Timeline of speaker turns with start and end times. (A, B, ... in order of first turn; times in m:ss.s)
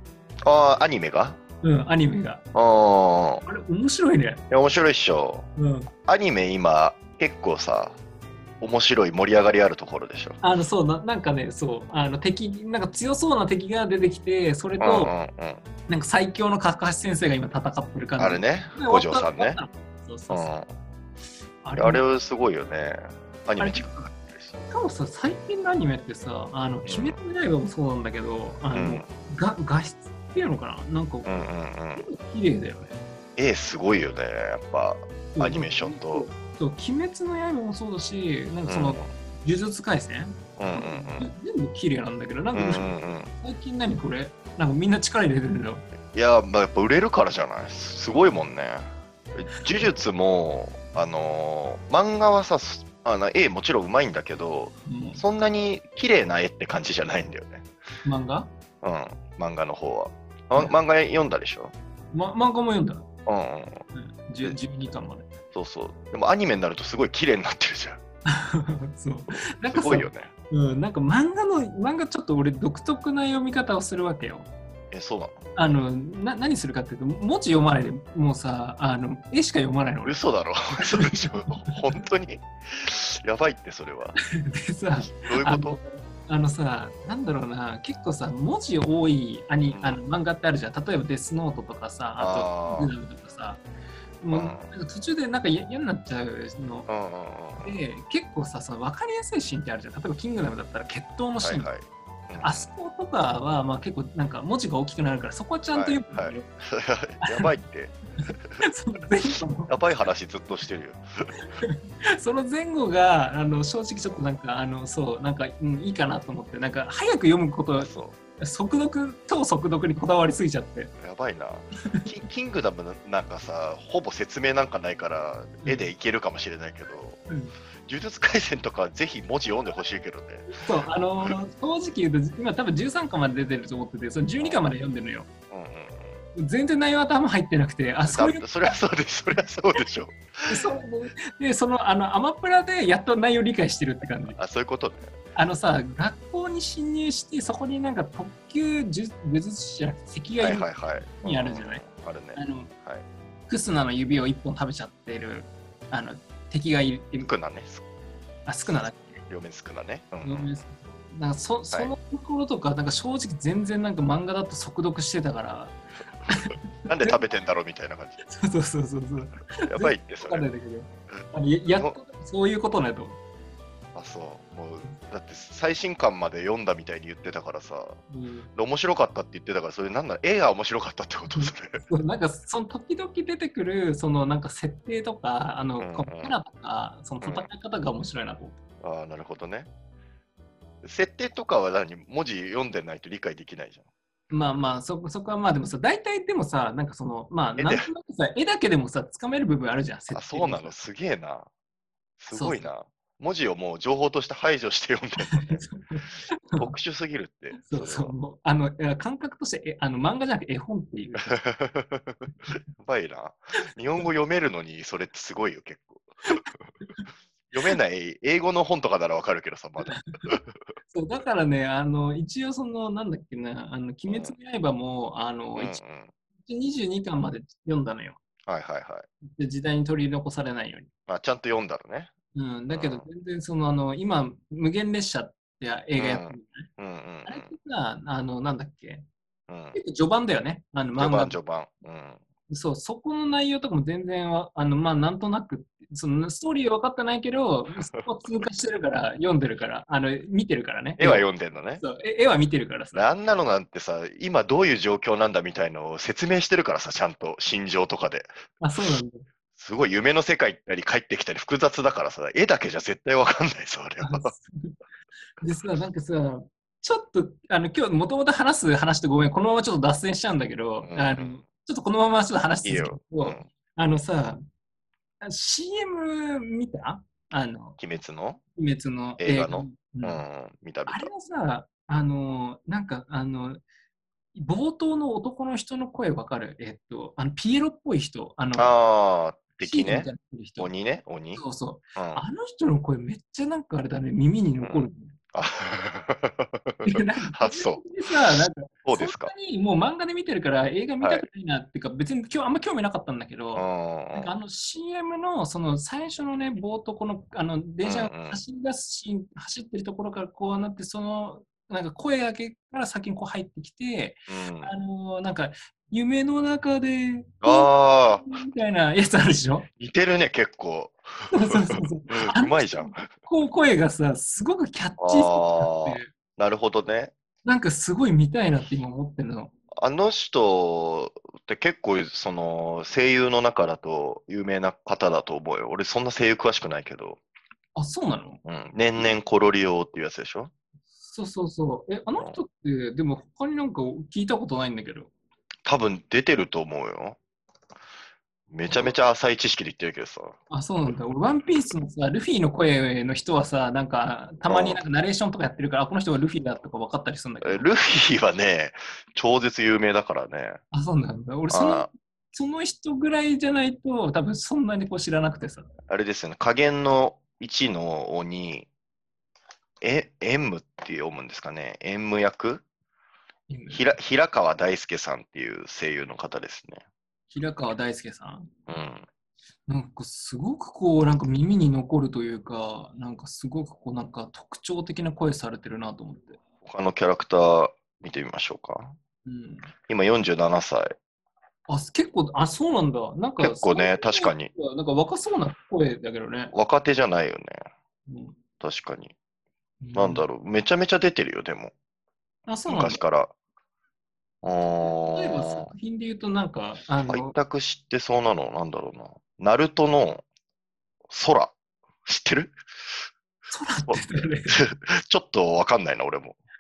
0:00.4-0:01.4 A
0:01.6-0:02.4 B
0:02.5-0:03.4 A
0:03.4-0:04.4 B
0:04.5-0:05.5 A
0:05.6-0:05.9 B
0:06.1-0:08.0 A
0:08.6-0:10.4 A
0:10.4-0:15.1 B
0:14.8-0:15.6 A
0:15.9-0:20.5 B
0:18.2-0:19.6 A
0:20.3-0:20.7 A
0:21.6-0:22.0 B
0:21.8-0:24.6 A
0:23.6-0:24.1 B
0:24.7-0:31.3 B
0:26.9-0:27.2 A
0:28.7-0:29.1 A
0:31.2-0:32.1 A
0:32.0-0:33.0 B
0:33.4-0:36.3 A
0:35.4-0:45.8 B
0:38.7-0:39.1 A
0:40.6-0:41.3 A
0:42.5-0:43.3 A
0:46.1-0:57.7 A
0:49.6-0:49.9 B
0:54.9-0:55.2 B
0:58.0-0:58.5 B
0:58.8-1:01.7 A
1:02.1-1:03.1 B
1:03.3-1:03.8 A
1:03.9-1:05.3 B
1:05.5-1:08.0 A
1:08.3-1:14.5 B
1:09.7-1:10.3 A
1:14.9-1:15.4 A
1:15.6-1:20.3 B
1:20.1-1:24.2 A
1:20.8-1:21.8 B
1:24.4-1:33.6 B
1:25.1-1:25.8 A
1:29.7-1:30.0 A
1:32.2-1:32.9 A
1:34.2-1:36.9 B
1:34.3-1:34.7 A
1:36.9-1:37.8 A
1:37.6-1:41.7 B
1:41.4-1:42.7 A
1:42.4-1:46.4 B
1:45.7-1:48.6 A
1:48.6-1:49.8 B
1:49.7-1:51.3 A
1:51.6-2:00.9 B
1:57.8-1:58.2 A
2:01.0-2:07.2 A
2:05.6-2:05.9 B
2:07.3-2:07.5 B
2:07.9-2:10.5 A
2:10.5-2:15.3 B
2:14.4-2:14.6 A
2:15.5-2:16.2 A
2:16.4-2:18.8 B
2:18.1-2:20.7 A
2:20.5-2:24.4 B
2:24.4-2:25.2 A
2:25.4-2:32.7 B
2:30.4-2:33.0 A
2:33.5-2:37.3 B
2:37.2-2:37.8 A
2:38.5-2:39.2 B
2:39.3-2:40.5 A
2:40.2-2:45.8 B
2:46.3-2:47.2 B
2:46.9-2:48.2 A
2:48.2-2:53.2 B
2:49.7-2:50.5 A
2:51.7-2:52.0 A
2:54.0-2:58.0 A
2:58.1-2:58.5 B
2:58.6-3:01.8 A
3:01.3-3:08.6 B
3:05.8-3:06.4 A
3:07.2-3:07.5 A
3:08.8-3:09.7 A
3:10.8-3:13.9 A
3:14.3-3:20.8 B
3:17.6-3:17.9 A
3:20.1-3:21.5 A
3:22.2-3:25.6 A
3:22.3-3:22.7 B
3:25.3-3:26.7 B
3:26.6-3:28.2 A
3:27.6-3:31.3 B
3:31.2-3:36.5 A
3:37.5-3:40.5 A
3:39.8-3:40.3 B
3:40.9-3:45.8 B
3:44.1-3:44.4 A
3:45.6-3:46.1 A
3:46.4-3:48.2 B
3:48.5-3:49.1 A
3:49.3-3:50.9 B
3:51.1-3:52.1 A
3:52.3-3:56.7 B
3:52.7-3:53.1 A
3:56.0-3:57.5 A
3:57.3-3:59.1 B
3:59.5-3:59.8 A
3:59.7-4:01.4 B
4:01.0-4:02.2 A
4:02.5-4:11.3 B
4:07.8-4:08.1 A
4:11.0-4:11.8 A
4:11.8-4:13.1 B
4:13.0-4:18.3 A
4:18.6-4:19.3 B
4:19.6-4:24.3 A
4:24.0-4:24.8 B
4:25.4-4:34.4 B
4:30.8-4:31.5 A
4:32.6-4:33.5 A
4:35.2-4:37.8 B
4:37.8-4:38.4 A
4:38.6-4:40.2 B
4:39.2-4:41.1 A
4:40.9-4:43.6 B
4:44.3-4:48.8 B
4:48.6-4:51.4 A
4:49.6-4:50.8 B
4:51.3-4:55.2 B
4:52.0-4:52.2 A
4:54.6-4:57.8 A
4:56.8-5:19.7 B
4:58.8-4:59.3 A
5:01.0-5:01.3 A
5:03.6-5:04.4 A
5:07.8-5:08.4 A
5:14.3-5:14.7 A
5:17.4-5:18.2 A
5:19.8-5:23.1 A
5:21.3-5:26.1 B
5:25.0-5:27.1 A
5:27.4-5:29.5 B
5:29.8-5:37.2 A
5:37.8-5:38.4 B
5:38.4-5:40.5 A
5:41.0-5:45.1 B
5:42.2-5:42.4 A
5:45.7-5:47.2 A
5:48.5-5:50.4 A
5:48.7-5:49.0 B
5:50.5-5:57.7 B
5:54.5-5:54.8 A
5:57.4-6:00.6 A
6:00.7-6:05.7 B
6:01.5-6:01.9 A
6:05.9-6:08.7 A
6:09.8-6:12.6 A
6:13.5-6:13.9 B
6:13.7-6:16.8 A
6:17.3-6:18.5 B
6:18.7-6:19.1 A
6:19.7-6:26.4 B
6:26.6-6:29.0 A
6:29.2-6:29.7 B
6:29.9-6:30.9 A
6:31.7-6:36.5 B
6:33.4-6:34.5 A
6:36.5-6:37.6 A
6:38.1-6:38.4 B
6:38.6-6:39.1 A
6:39.8-6:40.2 B
6:40.0-6:41.7 A
6:42.5-6:43.0 B
6:42.7-6:43.3 A
6:44.4-6:45.7 A
6:44.8-6:47.4 B
6:47.1-6:50.3 A
6:51.1-6:52.6 A
6:53.5-6:54.6 B
6:53.9-6:56.4 A